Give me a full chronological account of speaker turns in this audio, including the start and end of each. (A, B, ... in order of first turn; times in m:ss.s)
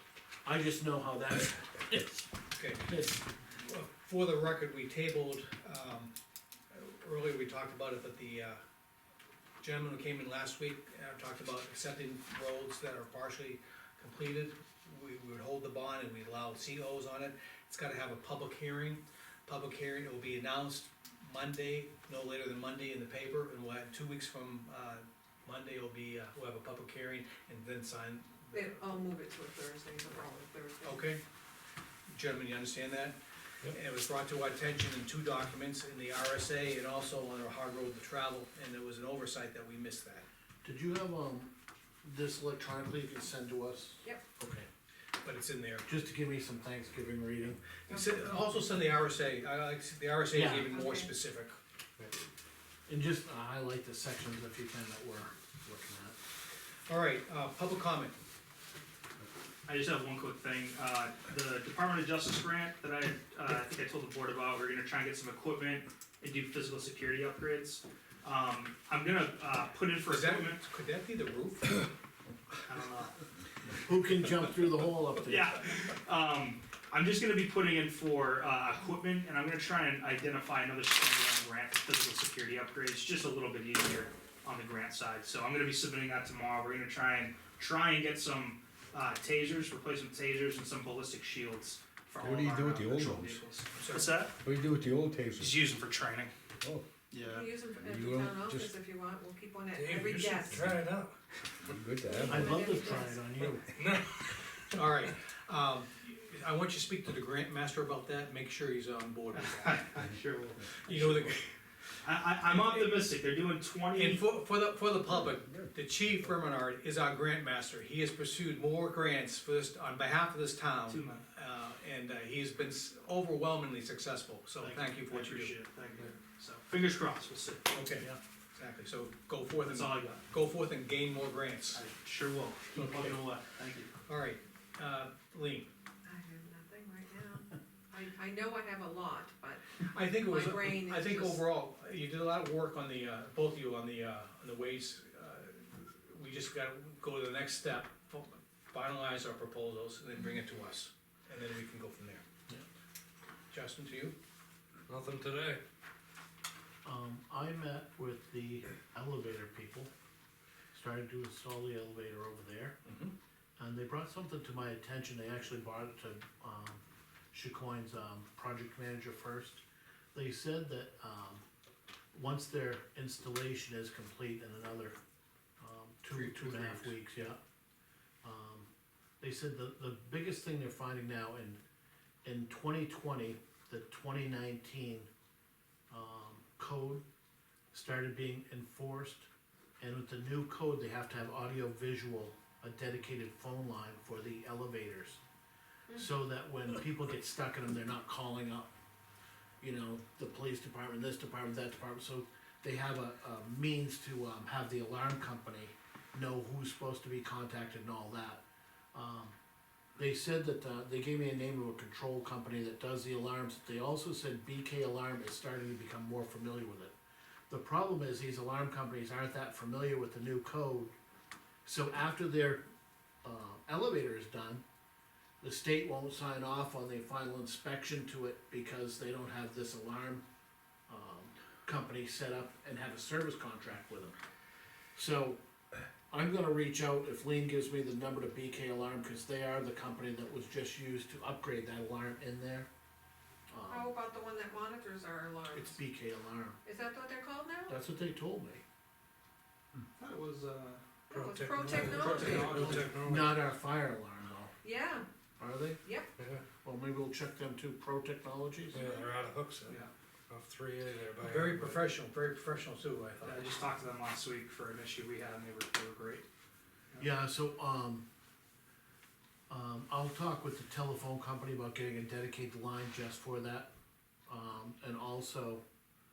0:00.4-0:02.3 A
0:02.6-0:03.0 B
0:02.9-0:03.2 A
0:03.6-0:06.1 B
0:06.7-0:08.6 B
0:09.6-0:29.0 B
0:28.5-0:31.1 C
0:30.8-0:31.2 B
0:32.1-0:40.3 B
0:40.6-0:44.7 A
0:45.2-0:45.9 B
0:45.8-0:47.6 A
0:47.9-0:51.6 B
0:50.3-0:50.7 A
0:50.7-0:51.1 C
0:52.9-0:56.2 A
0:56.9-0:58.2 B
0:59.7-1:10.6 D
1:10.1-1:11.9 B
1:12.6-1:13.2 D
1:13.8-1:15.5 A
1:15.2-1:34.4 D
1:32.2-1:33.4 E
1:33.8-1:34.2 B
1:34.4-1:35.6 E
1:35.4-1:36.3 D
1:37.1-1:37.5 D
1:37.2-1:40.7 C
1:37.8-1:38.7 E
1:39.8-1:41.2 F
1:40.5-1:40.8 E
1:41.6-1:42.8 E
1:42.1-1:42.4 F
1:42.2-1:43.7 A
1:42.3-1:43.5 C
1:43.7-1:44.4 F
1:44.7-1:49.9 B
1:49.3-1:51.4 D
1:50.8-1:51.5 B
1:52.0-1:54.3 D
1:52.6-1:53.0 B
1:53.9-2:05.6 B
2:00.9-2:01.2 D
2:04.6-2:07.8 D
2:07.7-2:11.8 B
2:09.6-2:10.2 D
2:11.7-2:13.9 D
2:12.7-2:13.3 B
2:14.1-2:15.7 B
2:16.0-2:21.5 C
2:19.8-2:32.2 B
2:33.5-2:34.2 B
2:34.9-2:35.6 F
2:36.8-2:39.9 A
2:40.7-2:42.8 A
2:42.8-2:43.1 B
2:43.6-2:49.6 A
2:50.1-2:51.4 A
2:52.1-2:55.0 A
2:55.6-2:57.4 A
2:56.1-2:56.9 B
2:58.2-3:01.6 A
3:02.2-3:05.1 A
3:05.9-3:07.0 A
3:07.7-3:09.3 A
3:09.8-3:15.2 A
3:15.9-3:18.7 A
3:19.6-3:28.4 A
3:28.9-3:29.4 A
3:30.0-3:36.9 A
3:37.5-3:40.9 A
3:41.6-3:42.6 A
3:43.2-3:44.6 A
3:45.4-3:50.2 A
3:50.9-3:54.2 A
3:55.0-3:55.4 A
3:56.1-4:02.7 A
4:03.5-4:03.9 A
4:03.7-4:05.8 C
4:05.5-4:06.6 A
4:06.6-4:07.8 C
4:07.7-4:08.6 A
4:10.0-4:10.8 D
4:11.1-4:12.6 C
4:11.1-4:13.4 F
4:12.2-4:12.8 D
4:12.2-4:13.0 B
4:12.4-4:14.5 A
4:14.6-4:15.1 C
4:15.4-4:15.8 A
4:15.8-4:16.1 C
4:16.6-4:18.8 A
4:18.7-4:19.8 F
4:20.3-4:21.8 F
4:21.2-4:23.4 B
4:23.2-4:26.2 D
4:27.0-4:28.0 A
4:29.5-4:33.7 A
4:34.3-4:35.6 A